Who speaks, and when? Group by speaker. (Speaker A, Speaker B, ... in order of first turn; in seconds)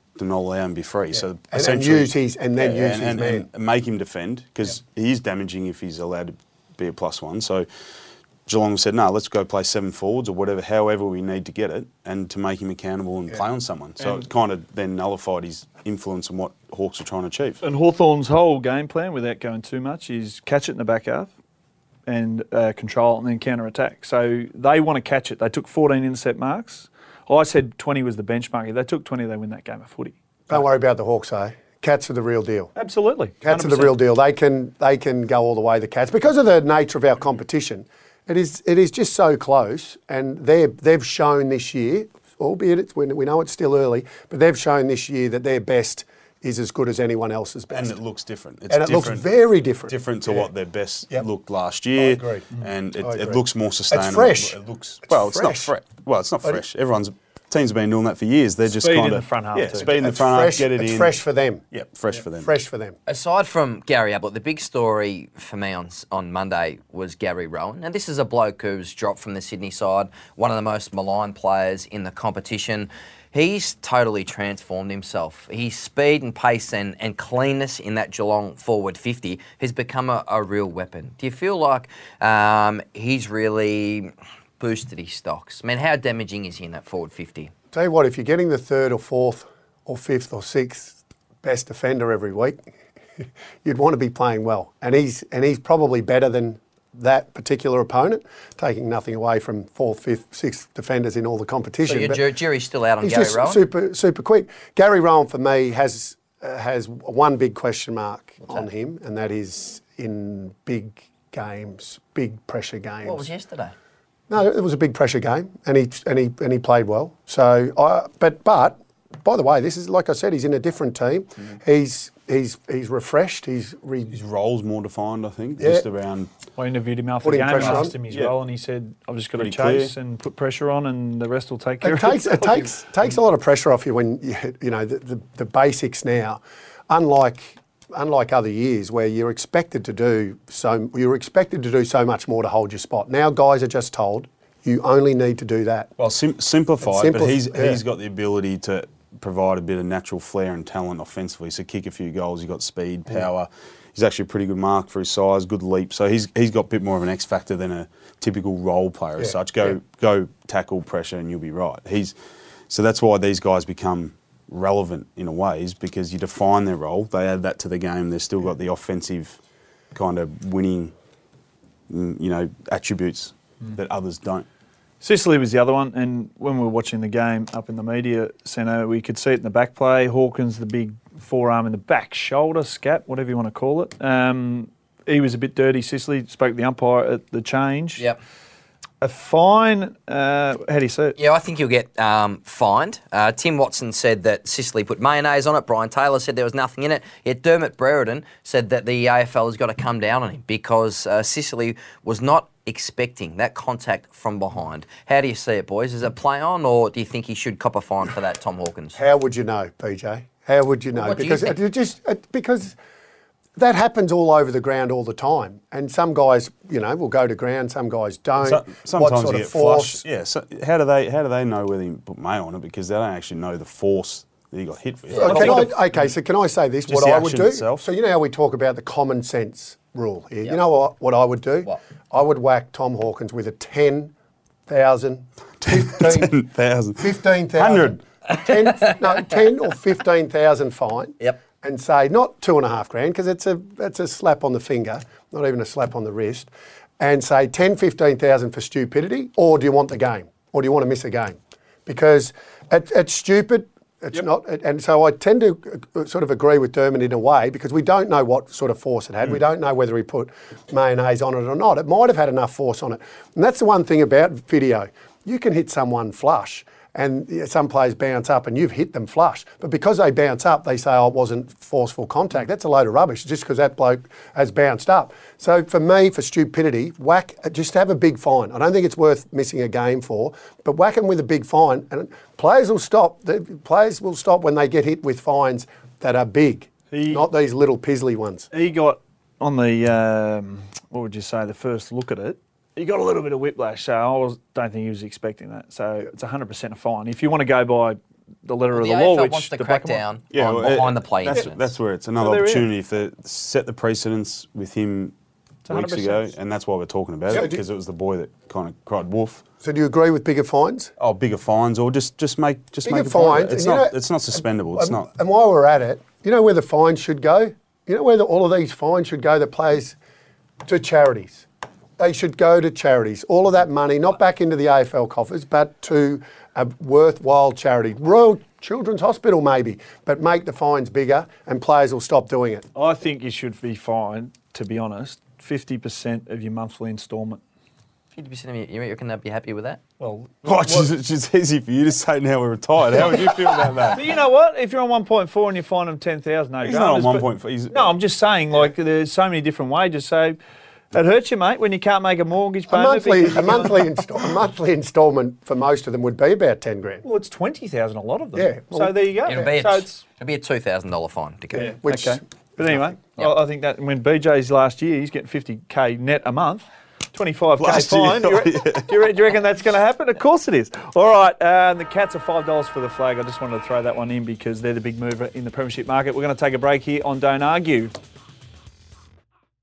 Speaker A: 0.1-7.7, 8.4-17.6, 47.7-49.3, 49.9-61.2, 61.7-62.5, 124.1-126.3, 127.6-128.3, 129.3-129.9, 146.0-162.1, 162.7-169.4, 169.9-170.9, 171.9-174.4, 218.4-225.8, 226.9-227.8, 235.6-238.0, 300.3-305.1, 305.7-309.4, 311.0-315.1, 340.4-344.1, 346.6-347.9, 367.6-368.9
Speaker B: 1.1-3.5, 30.5-32.7, 33.4-48.0, 48.7-50.5, 52.0-52.5, 53.0-54.5, 55.1-55.7, 59.8-61.6, 62.3-62.9, 87.7-92.6, 93.2-102.2, 103.0-113.2, 114.3-124.2, 125.6-125.8, 127.2-127.9, 131.8-145.9, 146.8-147.8, 159.2-159.7, 208.9-212.7, 213.6-220.0, 225.2-234.1, 234.7-236.3, 237.0-288.5, 307.3-307.6, 309.6-310.9, 312.8-319.9, 320.6-321.4, 322.0-332.7, 352.7-357.0, 358.3-358.9, 361.5-362.9
Speaker C: 14.0-14.3, 17.6-21.3, 22.1-30.6, 32.8-34.0, 58.7-59.9, 126.5-132.6, 175.0-188.0, 189.0-191.2, 286.9-287.2, 288.5-300.0, 302.2-302.7, 305.6-306.3, 332.7-337.4, 340.0-340.9, 343.9-350.4, 350.9-353.9, 357.0-360.0, 361.6-377.9
Speaker D: 63.1-87.5, 101.8-103.6, 113.0-113.7, 191.2-209.0, 210.9-211.6, 225.1-225.6, 238.3-239.2, 298.7-301.7, 338.1-339.8, 359.2-361.8